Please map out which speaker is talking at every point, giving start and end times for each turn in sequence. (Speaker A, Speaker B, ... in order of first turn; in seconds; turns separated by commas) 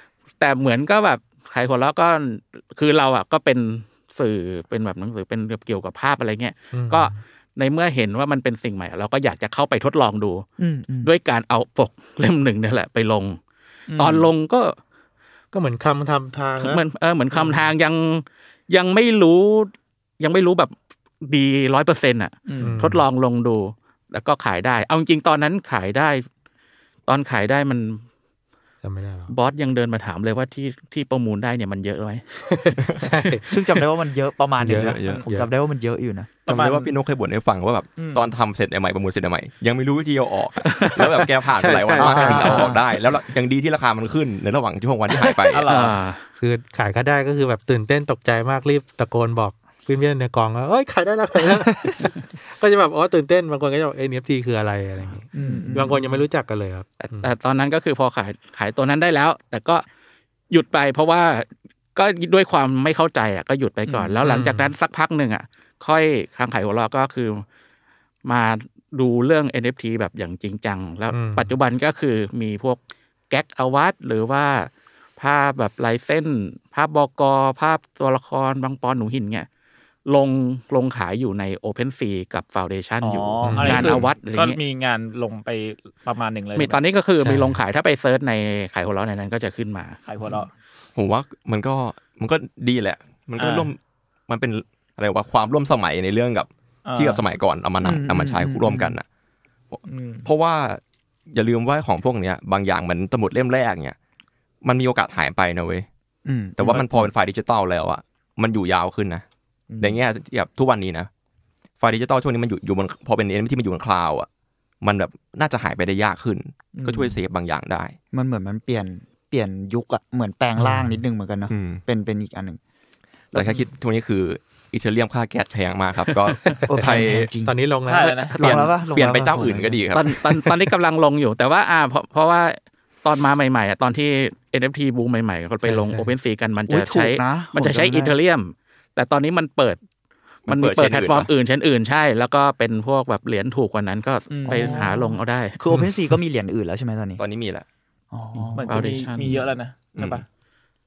Speaker A: 0.4-10.4, Speaker B: 6.7-7.2, Speaker C: 10.6-11.1, Speaker A: 11.0-13.4, Speaker D: 13.9-14.3, Speaker A: 14.0-14.8, Speaker B: 15.5-16.8, Speaker A: 16.6-26.2, Speaker B: 17.3-17.7, Speaker D: 22.5-22.8, Speaker B: 22.6-23.1, Speaker A: 27.1-28.1, Speaker B: 28.8-29.3, Speaker A: 29.3-32.2, Speaker B: 32.5-33.6, Speaker E: 32.8-33.1, Speaker C: 33.5-36.3, Speaker B: 34.6-35.5, Speaker E: 34.7-35.2, Speaker D: 35.0-35.3, Speaker E: 36.5-45.7, Speaker D: 36.5-37.0, Speaker D: 38.0-38.3, Speaker A: 40.6-41.1, Speaker B: 41.5-42.8, Speaker C: 42.0-42.8, Speaker D: 45.5-46.0, Speaker A: 45.7-46.2, Speaker B: 46.4-57.3, Speaker C: 55.3-56.1, Speaker D: 55.4-55.8, Speaker A: 57.0-59.9, Speaker A: 60.5-67.5, Speaker B: 64.2-64.7, Speaker A: 68.2-79.5, Speaker B: 71.1-71.5, Speaker A: 80.1-84.6, Speaker D: 83.0-86.8, Speaker B: 83.4-84.1, Speaker A: 86.6-90.0, Speaker B: 87.2-87.6, Speaker D: 90.1-90.5, Speaker E: 91.0-99.0, Speaker D: 93.4-93.7, Speaker D: 96.8-97.2, Speaker C: 97.8-99.0, Speaker E: 99.7-104.0, Speaker D: 99.9-100.3, Speaker E: 104.6-105.9, Speaker C: 106.2-107.1, Speaker E: 106.6-109.2, Speaker D: 109.7-110.0, Speaker E: 109.8-111.1, Speaker E: 111.8-114.3, Speaker E: 114.8-118.0, Speaker D: 116.7-117.2, Speaker C: 118.1-122.6, Speaker B: 120.6-121.0, Speaker E: 121.5-121.8, Speaker C: 123.3-123.7, Speaker E: 123.3-127.3, Speaker B: 126.6-128.7, Speaker C: 126.7-127.6, Speaker D: 127.9-128.3, Speaker E: 128.3-130.2, Speaker C: 128.3-129.8, Speaker A: 129.9-139.8, Speaker B: 135.7-136.1, Speaker C: 136.7-138.2, Speaker E: 140.5-141.3, Speaker A: 140.5-145.6, Speaker D: 144.3-144.9, Speaker C: 144.5-147.2, Speaker E: 147.2-147.7, Speaker C: 148.1-149.3, Speaker A: 148.4-149.4, Speaker D: 148.6-150.2, Speaker E: 149.9-150.2